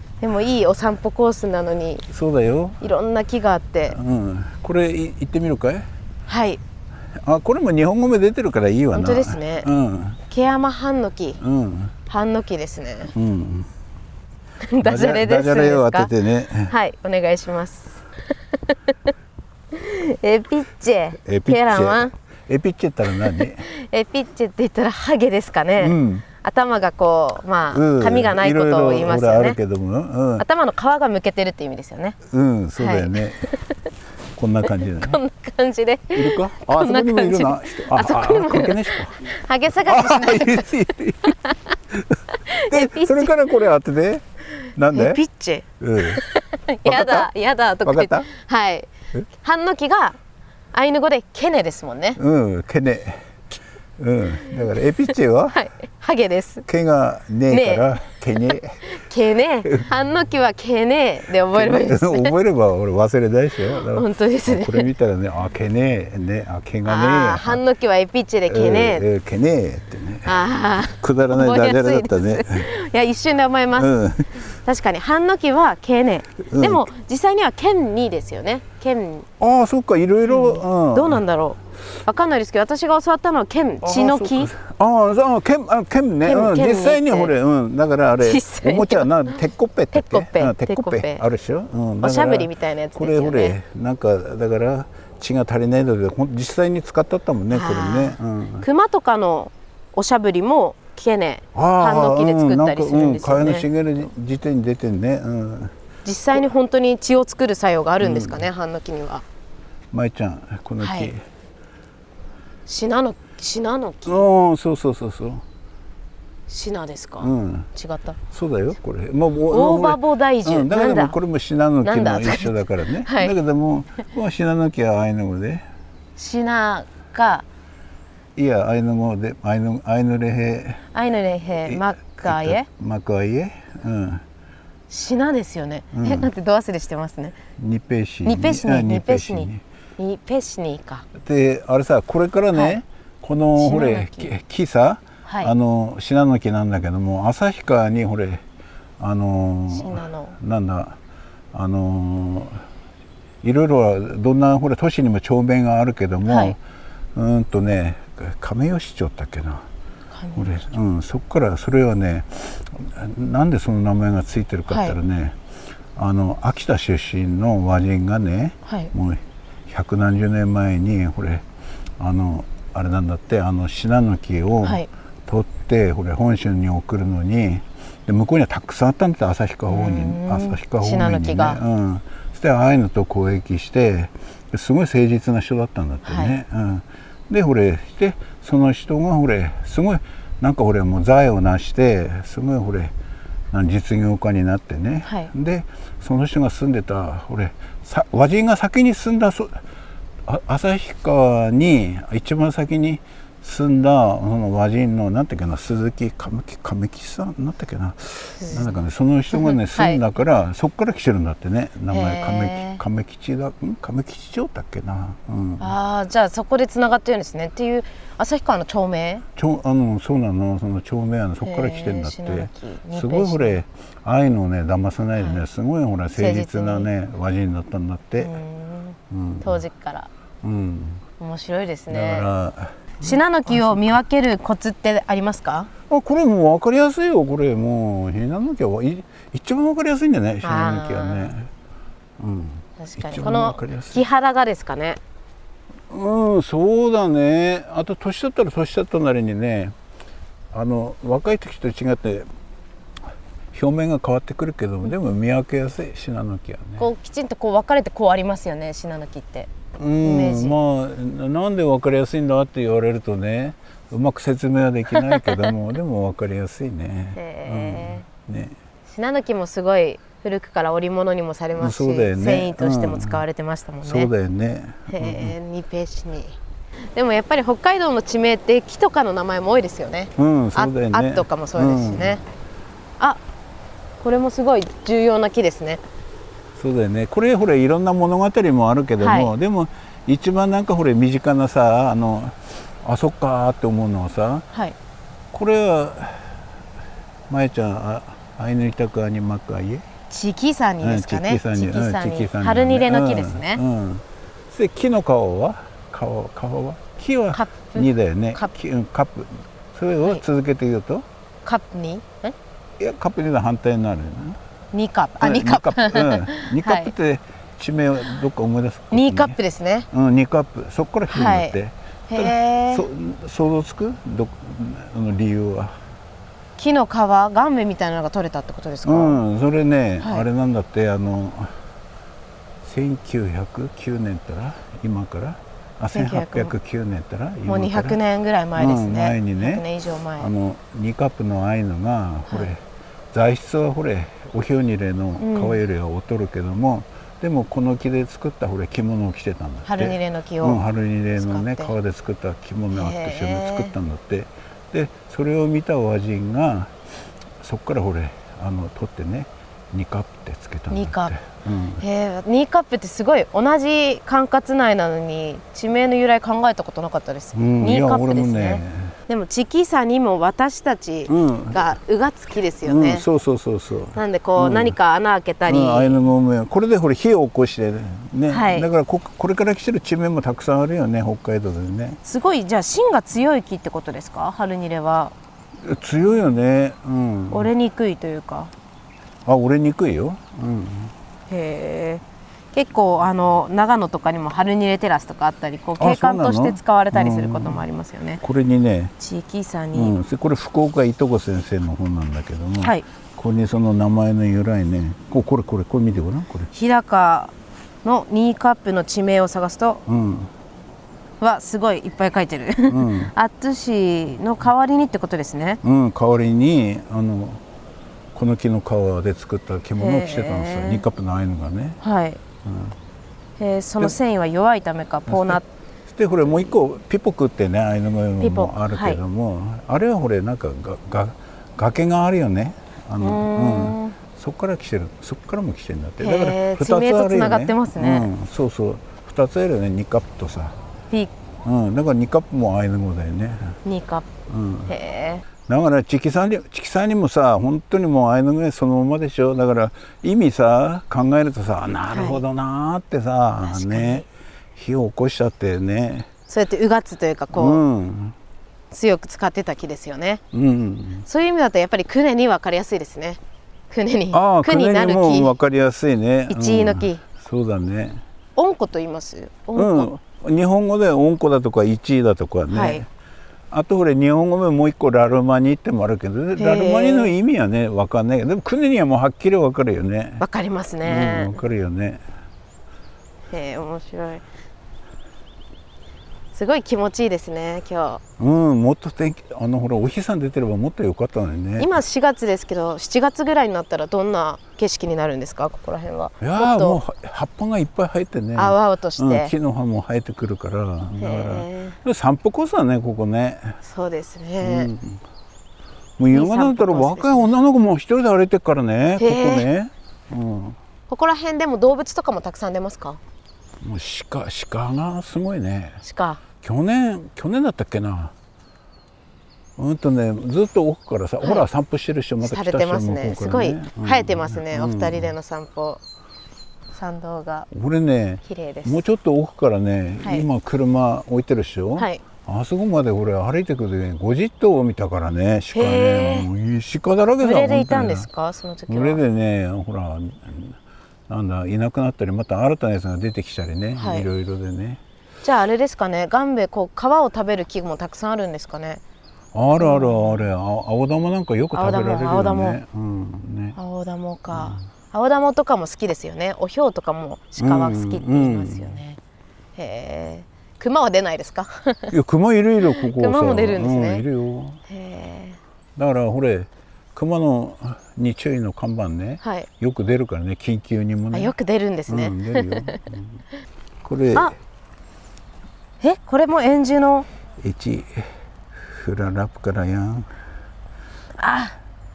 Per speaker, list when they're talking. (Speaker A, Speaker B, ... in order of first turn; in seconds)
Speaker A: 0.2-2.0, 2.8-4.0, 6.3-6.6, 8.9-9.7, 10.3-11.4, 12.1-13.1, 14.7-16.1, 16.7-18.0, 19.7-22.1, 23.4-29.6, 30.4-32.2, 32.8-33.5, 35.0-41.6, 42.5-43.5, 44.9-48.9, 49.4-50.2, 50.7-52.2, 55.5-56.7, 57.5-57.9, 58.5-62.3, 63.8-64.9, 66.8-69.0, 70.2-73.9, 74.5-79.3, 80.2-84.5, 86.2-87.3, 88.2-89.3, 89.9-91.2, 92.0-93.6, 97.5-103.7, 106.0-109.2, 110.8-111.1, 112.7-114.3, 116.5-118.2, 119.5-121.2, 121.8-123.3, 126.2-127.5, 130.9-132.7, 134.9-137.4, 138.2-141.1, 142.5-142.8, 143.6-144.3, 145.2-145.5, 149.7-150.3, 156.3-156.6, 160.1-160.7, 164.7-165.0, 168.7-168.9, 179.7-181.6, 186.1-186.3, 195.1-195.3, 208.4-208.7, 209.3-210.0, 211.9-212.8, 215.6-219.2, 221.4-223.6, 225.2-225.4, 226.2-226.9, 228.2-230.1, 231.2-232.3, 233.0-235.7, 240.4-241.3, 242.8-245.0, 256.8-259.5, 260.0-260.6, 265.0-265.4, 267.2-268.1, 268.9-274.1, 274.9-276.4, 276.9-282.2, 284.0-285.8, 289.0-289.3, 300.1-303.6, 307.3-308.5, 311.4-312.4, 314.7-316.9, 318.9-319.9, 321.1-321.6, 322.1-322.9, 326.6-329.2, 335.9-336.5, 337.5-340.3, 345.2-345.6, 349.7-350.6, 351.2-351.7, 352.7-353.8, 360.7-361.1, 361.8-373.1, 373.9-376.0, 378.3-378.7, 382.1-385.1, 387.3-388.5, 391.3-398.2, 399.0-399.9, 406.5-407.3, 407.8-409.8, 411.2-415.6, 419.8-420.8, 421.8-422.2, 423.4-425.5, 428.2-429.0, 433.0-434.0, 436.0-438.1, 443.6-444.1, 444.7-445.2, 451.9-452.2, 453.4-454.1, 456.3-457.6, 458.7-460.2, 461.1-465.3, 466.3-467.0, 468.4-469.9, 472.5-472.8, 476.4-477.1, 480.2-481.4, 483.3-484.2, 486.3-488.0, 491.6-496.8, 498.4-499.3, 501.0-501.8, 503.6-504.7, 506.1-507.3, 509.0-509.5, 510.9-513.0, 515.8-516.2, 522.2-525.8, 526.7-527.5, 528.2-528.8, 530.0-530.3, 531.8-532.0, 535.5-536.3, 537.2-539.0, 543.8-544.1, 545.2-548.8, 549.6-550.2, 551.5-552.6, 553.6-559.0, 559.6-561.9, 562.7-564.0, 564.7-565.4, 569.2-569.5, 571.1-572.8, 575.8-577.1, 581.2-581.6
Speaker B: 2.1-2.8, 3.9-5.9, 7.1-10.2, 11.4-11.9, 13.2-13.7, 14.8-16.7, 21.2-23.7, 25.8-26.2, 27.7-30.4, 32.3-33.5, 34.4-35.2, 36.1-39.2, 39.9-41.4, 41.9-45.2, 45.8-46.2, 46.9-47.3, 47.8-48.3, 52.2-53.2, 54.0-55.6, 56.7-58.8, 61.5-67.6, 68.5-70.4, 70.9-72.7, 73.7-74.4, 76.4-76.9, 79.4-81.2, 83.8-98.7, 101.5-105.7, 108.0-108.5, 109.9-111.2, 114.1-115.4, 117.2-117.7, 118.3-125.7, 128.4-130.8, 131.7-134.2, 135.9-136.3, 137.6-139.6, 141.2-148.4, 149.0-151.0, 151.5-152.6, 153.4-156.6, 157.2-159.7, 160.3-165.4, 166.0-171.4, 172.0-192.9, 193.5-199.6, 200.2-215.7, 219.4-228.3, 229.1-229.6, 230.4-231.0, 231.9-234.0, 235.9-241.5, 242.2-244.0, 245.9-249.8, 250.5-252.3, 253.5-256.9, 259.8-268.6, 271.6-273.2, 273.8-275.3, 280.2-282.2, 286.6-294.5, 295.3-296.4, 297.3-299.9, 300.8-311.1, 312.8-314.4, 315.2-319.4, 319.9-325.8, 328.8-331.6, 332.6-338.0, 338.6-339.7, 340.2-342.6, 343.1-356.7, 357.4-361.8, 367.4-369.0, 371.1-371.6, 372.6-374.8, 375.5-382.0, 385.6-387.5, 389.2-390.9, 395.8-397.7, 398.2-398.9, 399.7-406.5, 409.9-410.3, 412.7-413.1, 415.6-417.4, 418.1-421.8, 422.4-422.8, 425.1-440.6, 441.4-443.6, 444.3-444.7, 445.4-456.1, 457.3-458.2, 460.3-461.1, 464.1-468.0, 469.6-472.9, 473.5-480.2, 480.8-482.0, 488.2-491.8, 496.2-503.6, 504.4-505.0, 506.0-510.6, 513.6-515.8, 516.4-518.1, 519.6-525.1, 527.5-538.1, 538.7-540.6, 541.1-544.8, 549.3-553.6, 554.3-554.6, 557.4-558.8, 561.9-564.6, 565.8-571.3, 571.9-573.2, 573.8-574.3, 577.4-580.1